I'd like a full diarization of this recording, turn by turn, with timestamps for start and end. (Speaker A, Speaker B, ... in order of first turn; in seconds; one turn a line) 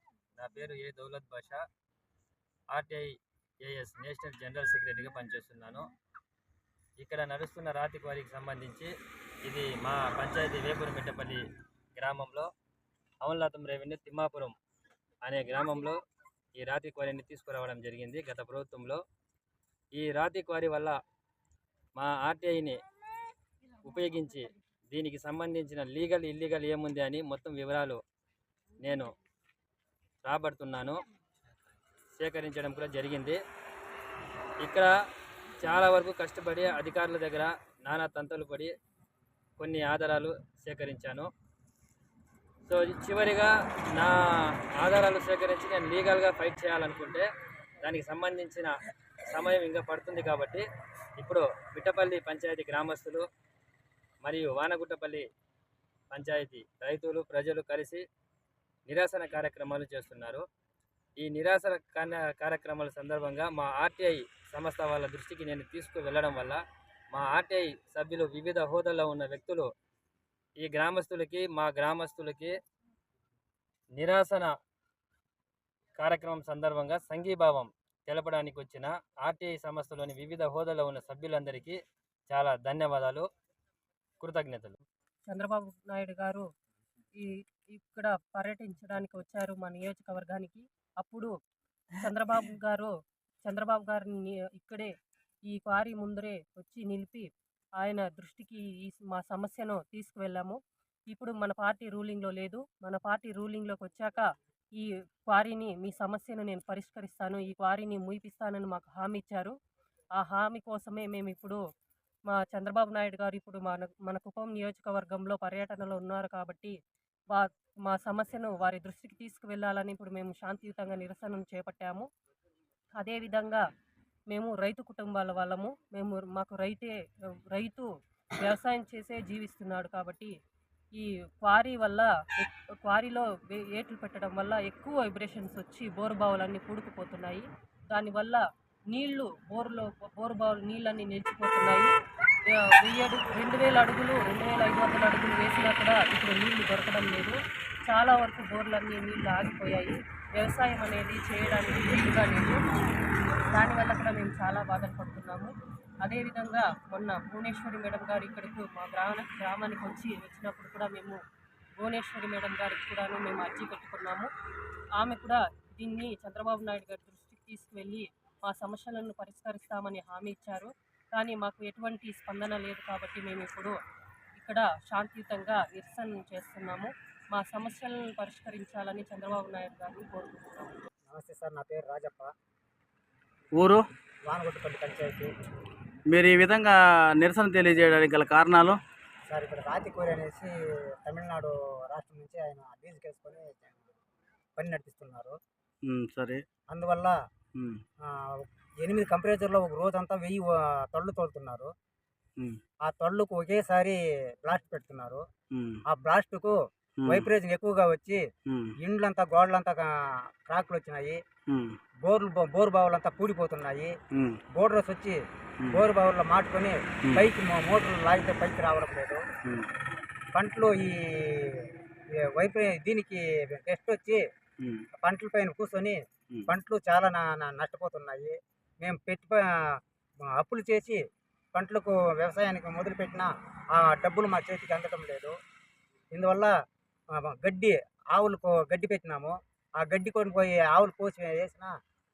Speaker A: 0.4-1.6
Speaker A: 2.7-3.1
Speaker A: 3.6-5.8
Speaker A: 7.0-8.9
Speaker A: 9.4-11.4
Speaker A: 11.9-12.5
Speaker A: 13.2-14.5
Speaker A: 15.2-16.0
Speaker A: 16.6-19.0
Speaker A: 19.9-21.0
Speaker A: 21.9-22.8
Speaker A: 23.8-28.0
Speaker A: 28.8-29.1
Speaker A: 30.2-30.9
Speaker A: 32.2-33.4
Speaker A: 34.6-34.9
Speaker A: 35.6-38.7
Speaker A: 39.6-41.3
Speaker A: 42.6-44.1
Speaker A: 44.8-47.3
Speaker A: 47.8-48.7
Speaker A: 49.3-50.6
Speaker A: 51.2-53.2
Speaker A: 54.2-55.2
Speaker A: 56.1-58.0
Speaker A: 58.9-60.4
Speaker A: 61.2-66.6
Speaker A: 67.1-69.7
Speaker A: 70.6-72.5
Speaker A: 74.0-74.5
Speaker A: 76.0-81.8
Speaker A: 82.3-83.2
Speaker A: 84.2-84.8
Speaker B: 85.3-86.5
Speaker B: 87.1-91.3
Speaker B: 92.0-92.9
Speaker B: 93.4-94.9
Speaker B: 95.5-109.5
Speaker B: 110.2-111.6
Speaker B: 112.3-116.7
Speaker B: 117.3-122.1
Speaker B: 123.0-123.6
Speaker B: 124.3-127.0
Speaker B: 127.5-127.9
Speaker B: 128.4-130.3
Speaker B: 130.9-141.9
Speaker B: 142.5-152.6
Speaker B: 153.5-161.2
Speaker B: 161.8-164.3
Speaker B: 164.9-173.8
Speaker B: 174.3-180.8
Speaker C: 181.1-182.3
Speaker D: 183.6-183.8
Speaker C: 184.3-185.3
Speaker D: 186.1-188.8
Speaker C: 189.3-190.5
Speaker C: 191.0-193.8
Speaker C: 194.6-195.3
Speaker D: 195.9-196.4
Speaker C: 196.7-197.2
Speaker D: 197.6-197.8
Speaker C: 198.1-201.7
Speaker C: 202.8-205.2
Speaker D: 205.5-205.8
Speaker C: 205.9-208.2
Speaker D: 207.0-207.3
Speaker C: 208.8-211.2
Speaker D: 211.5-211.8
Speaker C: 212.0-213.9
Speaker D: 214.1-214.4
Speaker C: 214.5-215.2
Speaker C: 215.7-219.2
Speaker C: 220.3-224.2
Speaker C: 225.0-229.8
Speaker C: 230.3-231.0
Speaker C: 231.5-235.3
Speaker C: 236.1-236.5
Speaker C: 237.1-241.7